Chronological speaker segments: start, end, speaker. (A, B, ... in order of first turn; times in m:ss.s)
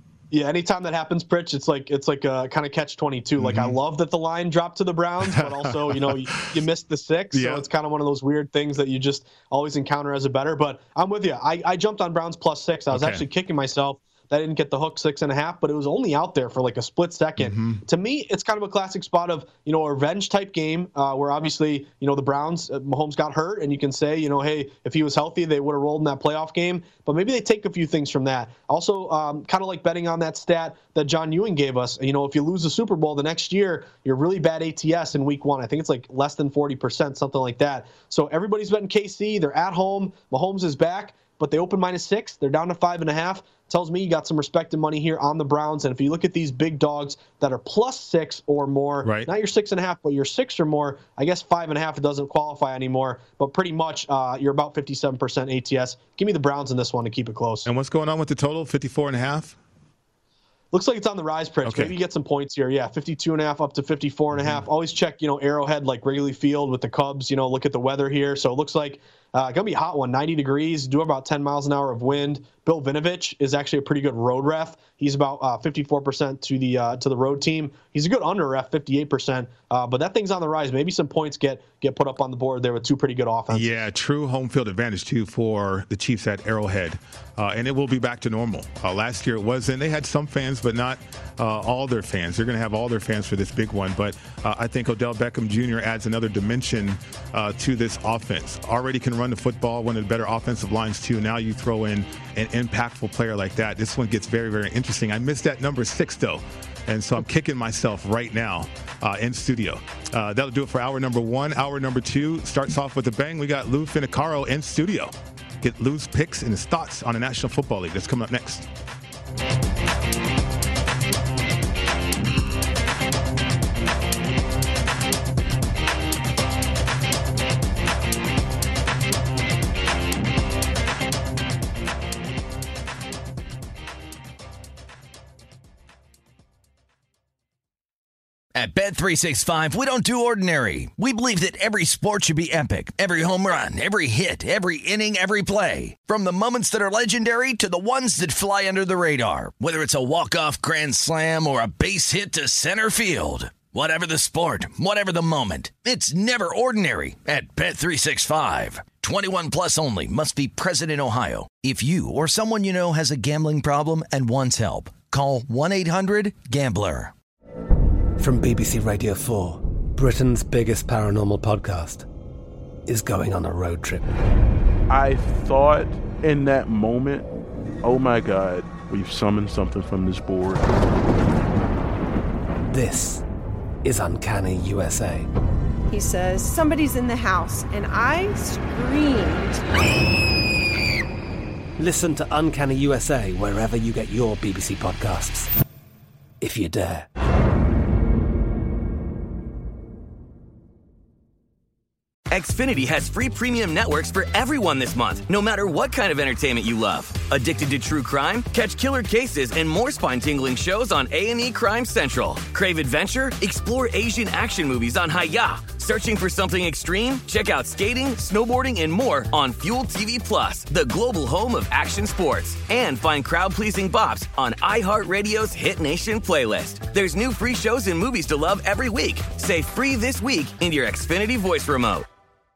0:00.3-0:57.7 A
0:03.4-0:03.8 B
0:05.3-0:06.2 B
0:07.3-0:07.6 B
0:12.9-0:13.2 B
0:17.4-0:17.8 B
0:49.0-0:49.3 B
0:57.6-0:59.6 B
1:00.7-1:23.8 A
1:01.6-1:01.9 B
1:04.3-1:04.6 B
1:23.5-1:58.6 B
2:18.6-2:47.1 C
2:48.2-2:52.1 D
2:52.9-2:54.1 D
2:54.9-2:57.3 E
2:57.8-3:00.6 E
3:02.7-3:03.2 D
3:03.8-3:05.3 D
3:05.9-3:09.6 F
3:11.8-3:15.5 D
3:16.4-3:17.1 D
3:22.3-3:52.0 G